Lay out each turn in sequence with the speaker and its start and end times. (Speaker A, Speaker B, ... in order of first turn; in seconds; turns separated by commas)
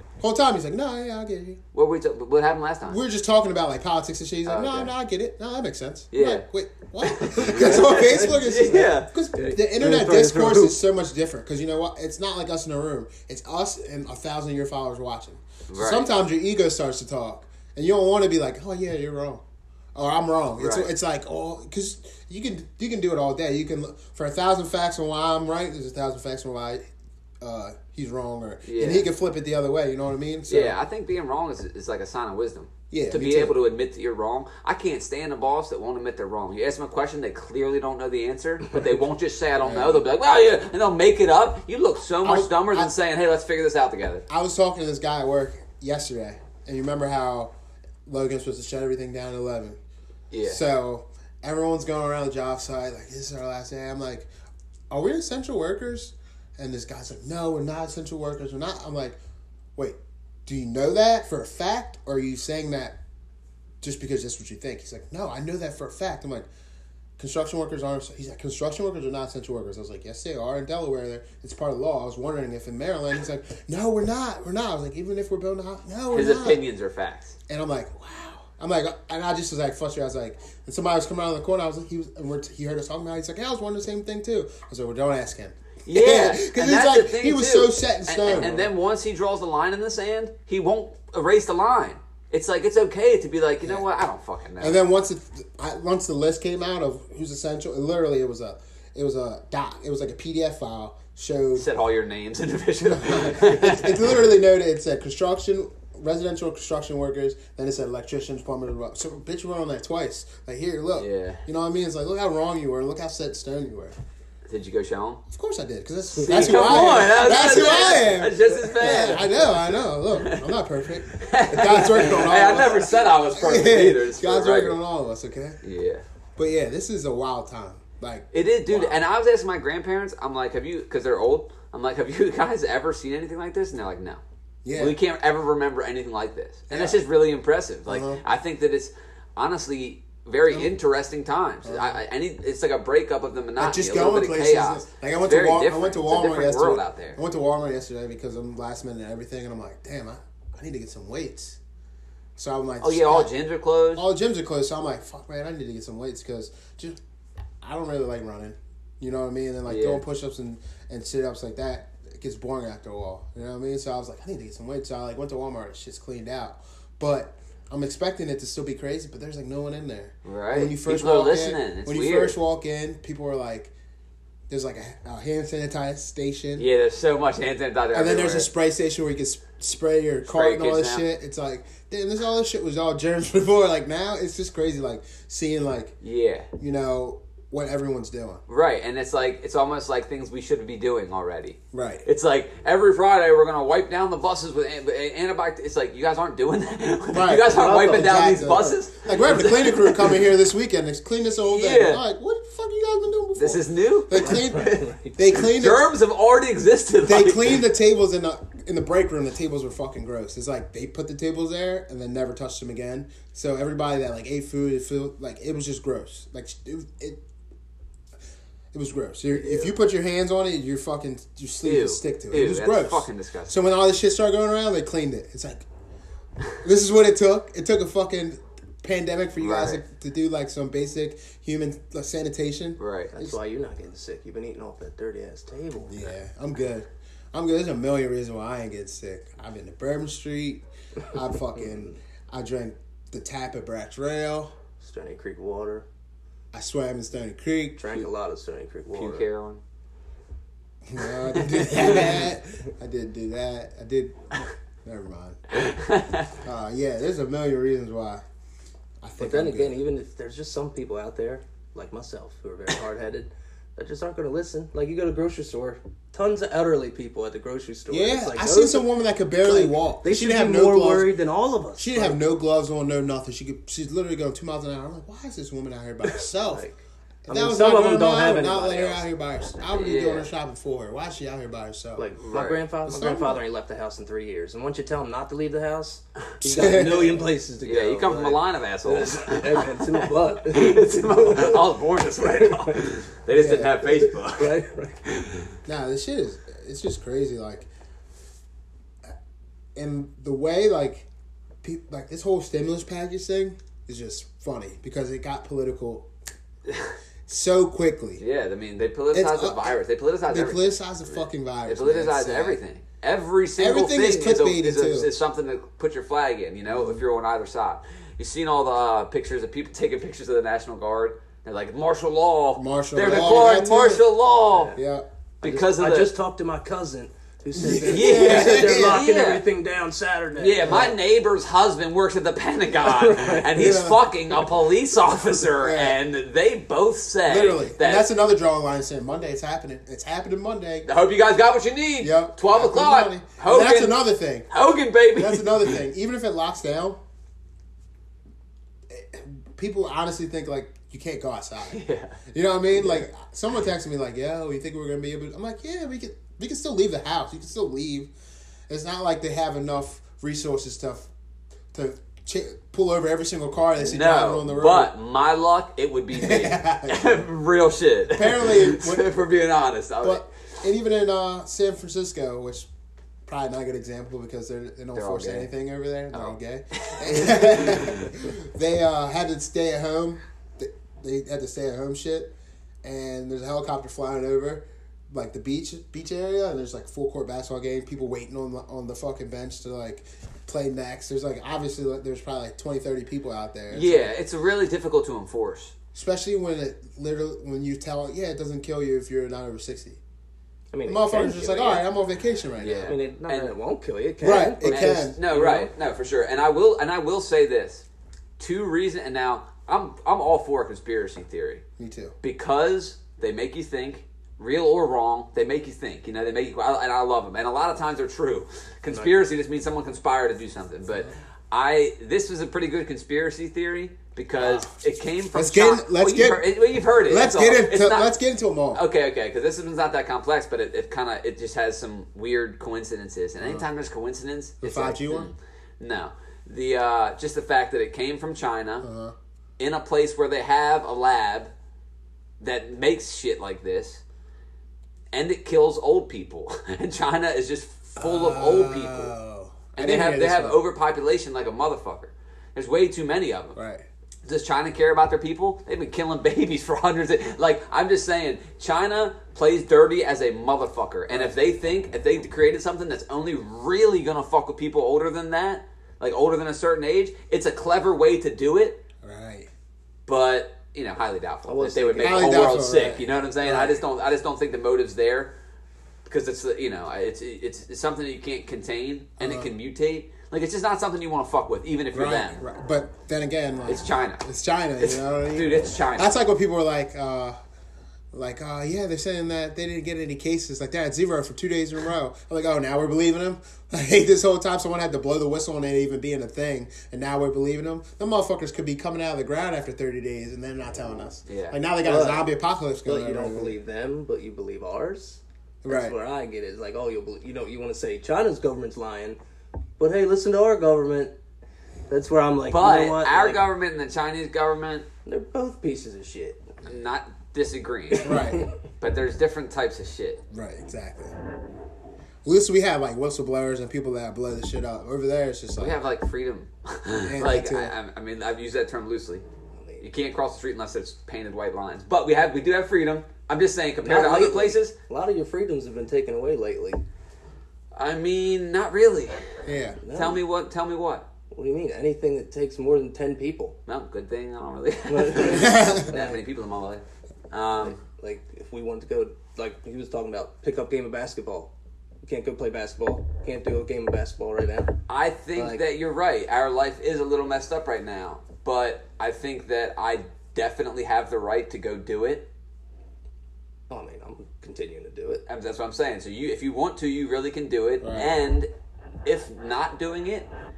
Speaker A: 0.2-1.6, Speaker B: 1.7-3.0, Speaker A: 2.9-19.4, Speaker B: 4.5-4.9, Speaker B: 6.1-6.5, Speaker B: 7.0-9.1, Speaker C: 7.4-10.8, Speaker B: 15.7-16.1, Speaker A: 19.9-26.9, Speaker B: 20.6-20.9, Speaker A: 27.4-30.8, Speaker B: 28.6-29.1, Speaker B: 30.5-44.2, Speaker A: 32.9-33.6, Speaker A: 39.6-40.1, Speaker A: 42.2-42.9, Speaker A: 44.3-47.5, Speaker A: 48.1-49.8, Speaker B: 50.3-50.6, Speaker A: 50.5-54.3, Speaker A: 54.9-59.2, Speaker A: 59.8-63.0, Speaker A: 63.8-66.5, Speaker A: 67.2-76.6, Speaker B: 76.1-77.4, Speaker A: 77.5-88.7, Speaker B: 85.9-94.8, Speaker A: 94.6-101.7, Speaker B: 101.5-104.2, Speaker A: 102.8-114.0, Speaker B: 111.0-111.4, Speaker B: 114.5-115.2, Speaker A: 115.3-125.6, Speaker B: 116.2-119.5, Speaker C: 118.8-119.3, Speaker B: 120.2-120.5, Speaker B: 121.1-124.8, Speaker B: 125.6-126.0, Speaker A: 126.4-129.0, Speaker B: 128.3-134.2, Speaker A: 134.6-135.0, Speaker B: 134.8-147.2, Speaker A: 136.7-137.0, Speaker A: 137.9-138.2, Speaker A: 141.6-142.0, Speaker A: 143.6-151.6, Speaker A: 152.4-153.3, Speaker B: 152.8-154.1, Speaker A: 153.9-157.0, Speaker A: 157.6-173.7, Speaker B: 159.7-160.0, Speaker B: 170.2-172.4, Speaker A: 174.5-176.7, Speaker B: 176.6-178.5, Speaker A: 177.9-186.0, Speaker B: 180.3-181.1, Speaker B: 186.0-186.5, Speaker A: 186.6-188.4, Speaker B: 188.5-200.2, Speaker A: 191.7-192.1, Speaker A: 197.1-205.9, Speaker C: 197.5-198.8, Speaker B: 201.5-202.0, Speaker B: 203.4-204.8, Speaker C: 204.2-205.2, Speaker B: 205.3-207.6, Speaker A: 207.0-217.2, Speaker A: 218.7-225.7, Speaker B: 219.4-219.7, Speaker B: 221.6-223.6, Speaker A: 226.6-233.3, Speaker B: 229.4-229.8, Speaker B: 232.8-233.1, Speaker C: 233.1-236.0, Speaker A: 235.9-244.5, Speaker C: 244.8-245.8, Speaker A: 246.5-247.8, Speaker C: 247.8-249.2, Speaker B: 248.9-249.6, Speaker A: 250.9-255.4, Speaker B: 251.1-252.2, Speaker B: 255.5-256.4, Speaker A: 256.4-258.2, Speaker A: 259.0-259.8, Speaker C: 259.2-272.2, Speaker A: 267.9-271.1, Speaker A: 271.8-276.7, Speaker C: 276.1-276.8, Speaker A: 277.3-282.1, Speaker C: 277.3-279.1, Speaker B: 279.7-280.3, Speaker C: 282.0-292.8, Speaker B: 282.2-282.6, Speaker A: 282.9-283.4, Speaker A: 286.4-287.3, Speaker B: 287.6-295.5, Speaker A: 293.3-293.7, Speaker C: 293.9-295.0, Speaker A: 295.7-297.7, Speaker A: 299.8-301.1, Speaker A: 301.6-306.1, Speaker B: 306.7-306.9, Speaker A: 307.3-308.2, Speaker B: 308.2-324.7, Speaker A: 309.1-312.6, Speaker A: 313.6-315.1, Speaker A: 316.7-317.0, Speaker A: 322.6-324.1, Speaker C: 324.5-324.8, Speaker A: 324.8-325.1, Speaker B: 325.4-326.1, Speaker C: 325.4-330.9, Speaker A: 327.6-329.1, Speaker B: 327.8-329.4, Speaker B: 330.4-338.1, Speaker A: 330.6-331.0, Speaker C: 332.8-333.5, Speaker A: 333.5-334.5, Speaker A: 335.4-336.0, Speaker A: 337.3-340.9, Speaker B: 340.9-345.8, Speaker A: 342.0-344.5, Speaker A: 345.1-347.0, Speaker A: 348.9-358.1, Speaker B: 351.7-352.2, Speaker A: 358.7-361.1, Speaker A: 361.7-364.9, Speaker B: 363.8-370.3, Speaker A: 366.1-367.3, Speaker A: 368.1-369.1, Speaker A: 370.0-372.7, Speaker A: 373.3-394.1, Speaker B: 374.9-375.5, Speaker B: 376.1-378.1, Speaker B: 393.7-395.8, Speaker A: 395.9-400.0, Speaker C: 400.7-401.9, Speaker A: 400.9-402.9, Speaker B: 402.6-403.5, Speaker C: 402.9-405.7, Speaker A: 404.2-405.2, Speaker B: 404.6-407.9, Speaker B: 408.4-411.6, Speaker A: 411.8-412.2, Speaker B: 412.2-428.1, Speaker A: 424.4-428.8, Speaker B: 428.7-438.9, Speaker A: 433.4-433.7, Speaker A: 434.6-435.3, Speaker A: 438.8-439.1, Speaker B: 439.6-441.5, Speaker B: 442.4-444.0, Speaker B: 445.1-449.1, Speaker A: 448.0-450.6, Speaker B: 449.8-453.6, Speaker A: 453.6-453.8, Speaker B: 454.3-468.8, Speaker A: 461.1-461.4, Speaker A: 469.0-469.5, Speaker B: 470.1-475.3, Speaker C: 471.5-472.6, Speaker A: 472.0-473.8, Speaker B: 476.1-482.4, Speaker A: 479.2-479.5, Speaker A: 481.9-487.4, Speaker B: 483.7-484.2, Speaker B: 484.8-486.2, Speaker A: 488.1-503.6, Speaker B: 501.3-501.6, Speaker C: 501.8-502.3, Speaker C: 502.9-509.2, Speaker A: 505.6-506.0, Speaker C: 509.8-511.1, Speaker C: 511.9-513.4, Speaker B: 512.5-514.9, Speaker C: 515.1-516.5, Speaker B: 516.6-518.2, Speaker C: 517.9-518.5, Speaker A: 518.0-518.5, Speaker B: 518.8-520.2, Speaker A: 520.3-521.1, Speaker A: 522.2-525.8, Speaker B: 525.6-529.2, Speaker A: 527.1-527.8, Speaker B: 529.8-534.7, Speaker C: 533.8-536.8, Speaker B: 537.8-539.2, Speaker A: 539.5-539.8, Speaker C: 539.8-540.2, Speaker B: 539.9-541.1, Speaker C: 541.3-543.6, Speaker B: 543.7-547.8, Speaker C: 544.9-546.2, Speaker A: 545.3-545.9, Speaker C: 547.6-551.5, Speaker C: 552.0-554.8, Speaker B: 554.9-562.3, Speaker C: 555.4-555.6, Speaker C: 563.7-565.2, Speaker B: 565.3-568.5, Speaker A: 567.8-568.3, Speaker B: 569.0-570.3